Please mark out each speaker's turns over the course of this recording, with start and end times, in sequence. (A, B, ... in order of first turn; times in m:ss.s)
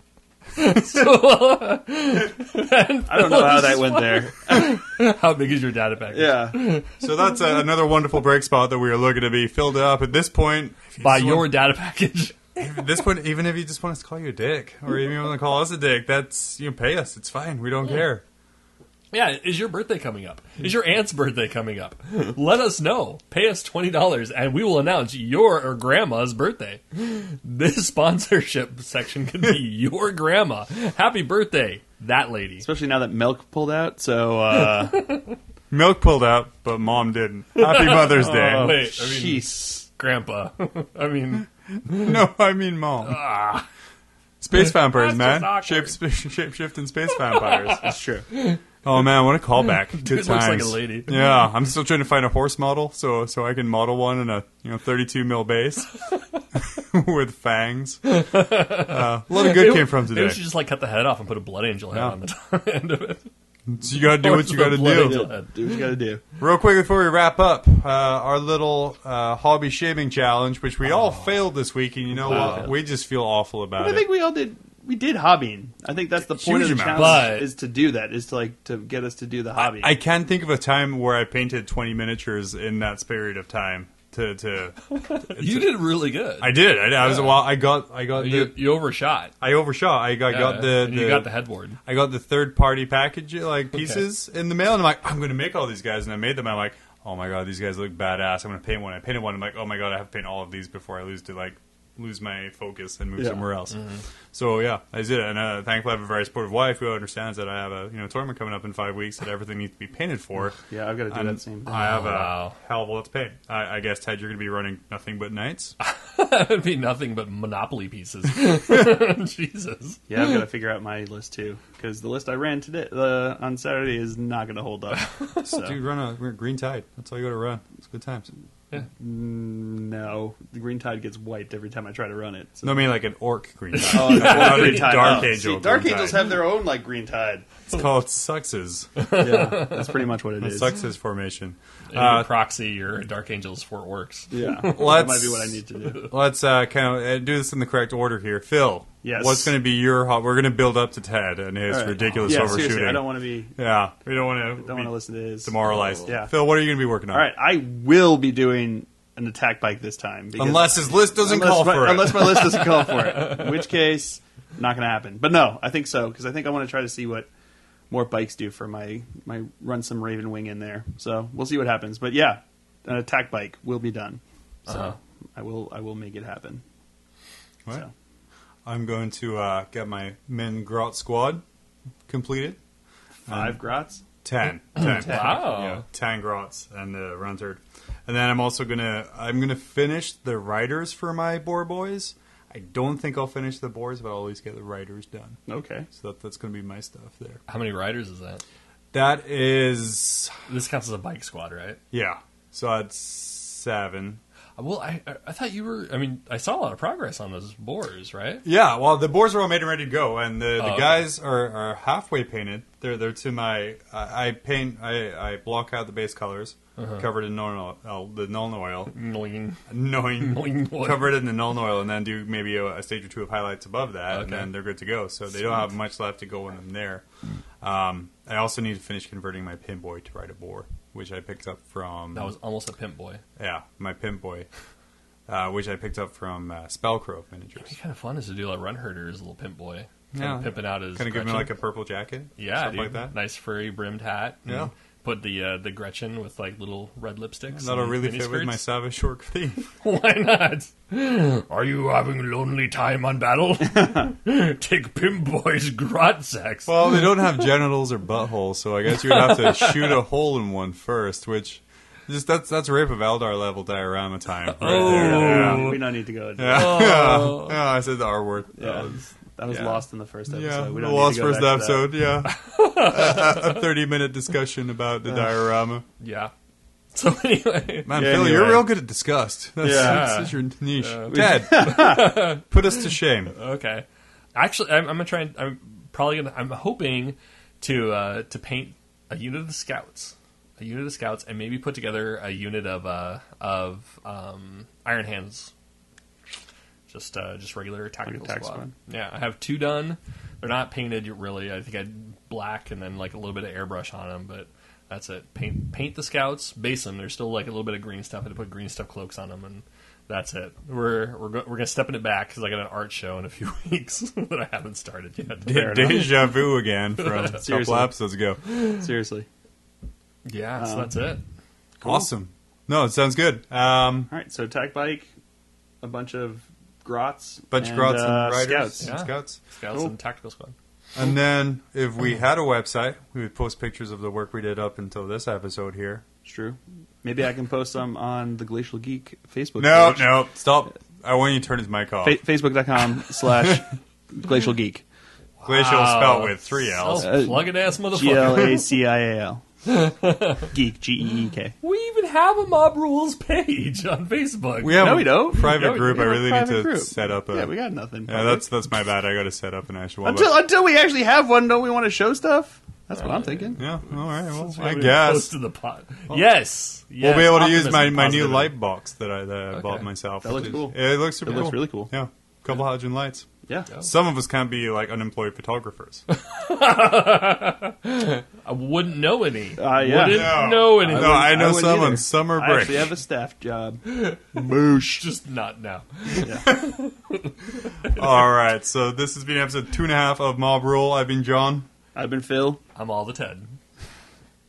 0:00.6-0:07.0 A
0:03.1-0:04.8 B
0:06.1-0:06.8 B
0:07.0-0:11.6 C
0:11.0-0:12.6 A
0:12.6-0:18.2 C
0:19.1-0:32.7 A
0:32.6-0:35.1 B
0:34.9-0:35.4 A
0:35.7-0:38.8 C
0:37.6-0:42.2 A
0:38.3-0:39.8 B
0:41.9-0:43.3 C
0:43.0-0:43.7 A
0:44.4-0:48.0 C
0:44.5-0:46.0 A
0:47.3-0:48.6 A
0:47.8-0:48.3 B
0:48.8-0:56.0 C
0:49.9-0:51.3 A
0:56.6-1:00.4 C
0:58.1-1:03.3 A
1:01.9-1:02.2 C
1:03.7-1:05.3 C
1:04.0-1:05.8 A
1:05.0-1:06.2 B
1:06.4-1:14.0 C
1:10.9-1:11.3 A
1:12.1-1:12.7 A
1:12.3-1:12.7 B
1:13.8-1:19.9 B
1:16.3-1:17.3 C
1:16.9-1:17.5 A
1:19.6-1:28.8 C
1:24.9-1:27.5 A
1:28.1-1:29.3 A
1:29.4-1:31.3 C
1:30.3-1:31.8 A
1:31.8-1:55.7 C
1:33.7-1:34.0 A
1:43.2-1:43.4 B
1:43.7-1:44.0 A
1:50.7-1:52.0 B
1:51.7-1:52.6 A
1:55.8-2:00.4 A
2:00.1-2:05.8 B
2:05.4-2:08.3 C
2:08.8-2:12.8 B
2:12.6-2:16.3 C
2:13.7-2:15.3 A
2:13.8-2:17.7 B
2:17.7-2:18.9 C
2:19.0-2:20.0 A
2:19.1-2:20.7 B
2:20.4-2:22.3 C
2:21.9-2:25.2 A
2:24.3-2:26.1 B
2:24.6-2:37.3 C
2:29.0-2:29.5 B
2:31.7-2:33.6 B
2:32.0-2:32.7 A
2:34.6-2:36.3 B
2:37.1-2:47.3 B
2:40.4-2:42.6 C
2:42.5-2:43.6 A
2:47.9-2:56.6 B
2:54.7-2:54.9 A
2:58.6-3:01.4 C
3:02.1-3:02.6 C
3:03.3-3:04.0 B
3:03.3-3:03.6 C
3:04.2-3:17.4 C
3:04.7-3:05.8 A
3:04.8-3:05.4 B
3:15.5-3:15.9 B
3:17.5-3:18.4 A
3:18.9-3:20.5 C
3:20.5-3:21.8 A
3:21.9-3:24.2 C
3:24.6-3:28.4 A
3:28.4-3:38.9 C
3:30.6-3:31.1 A
3:36.8-3:37.1 A
3:38.9-3:41.2 A
3:39.7-3:47.0 C
3:44.1-3:44.5 A
3:47.6-3:52.3 C
3:52.1-3:53.2 A
3:53.4-3:54.5 C
3:55.3-3:57.7 C
3:57.6-4:01.6 A
4:00.1-4:03.1 C
4:02.4-4:08.6 A
4:04.4-4:04.7 C
4:07.5-4:09.7 C
4:09.7-4:17.4 A
4:16.6-4:25.8 C
4:19.0-4:20.0 A
4:24.5-4:25.8 A
4:24.6-4:27.0 B
4:26.4-4:28.9 C
4:26.5-4:27.6 A
4:28.6-4:31.9 B
4:29.5-4:29.8 A
4:30.3-4:35.8 C
4:32.2-4:33.6 A
4:36.0-4:36.3 A
4:36.9-4:38.2 A
4:37.9-4:43.4 C
4:37.9-4:38.6 B
4:39.6-4:40.2 B
4:39.6-4:55.5 A
4:41.1-4:42.2 B
4:56.9-5:16.4 A
4:58.1-4:58.7 B
5:15.4-5:18.4 C
5:15.5-5:16.0 B
5:17.0-5:17.4 A
5:17.2-5:17.9 B
5:18.5-5:18.8 A
5:18.6-5:19.3 B
5:20.2-5:21.2 A
5:20.6-5:21.0 B
5:21.8-5:24.1 C
5:24.1-5:25.1 B
5:25.8-5:28.9 B
5:27.5-5:29.4 C
5:28.8-5:30.6 A
5:30.9-5:36.0 C
5:36.2-5:40.3 B
5:39.6-5:42.2 C
5:42.0-5:44.8 B
5:43.4-5:43.6 C
5:45.4-5:48.8 A
5:45.4-5:47.2 C
5:47.0-5:49.4 B
5:49.6-5:50.6 A
5:50.5-5:51.6 B
5:51.6-5:55.4 A
5:54.6-5:57.6 C
5:54.8-5:58.5 B
5:58.1-6:00.4 C
6:00.0-6:03.6 B
6:02.9-6:08.5 A
6:03.6-6:05.4 C
6:07.0-6:16.1 C
6:09.5-6:09.9 A
6:10.2-6:11.9 B
6:16.1-6:21.4 A
6:19.6-6:25.0 B
6:20.0-6:22.9 C
6:23.8-6:28.2 A
6:26.2-6:26.4 B
6:26.4-6:26.8 C
6:27.8-6:31.7 C
6:31.9-6:32.6 B
6:32.7-6:33.6 A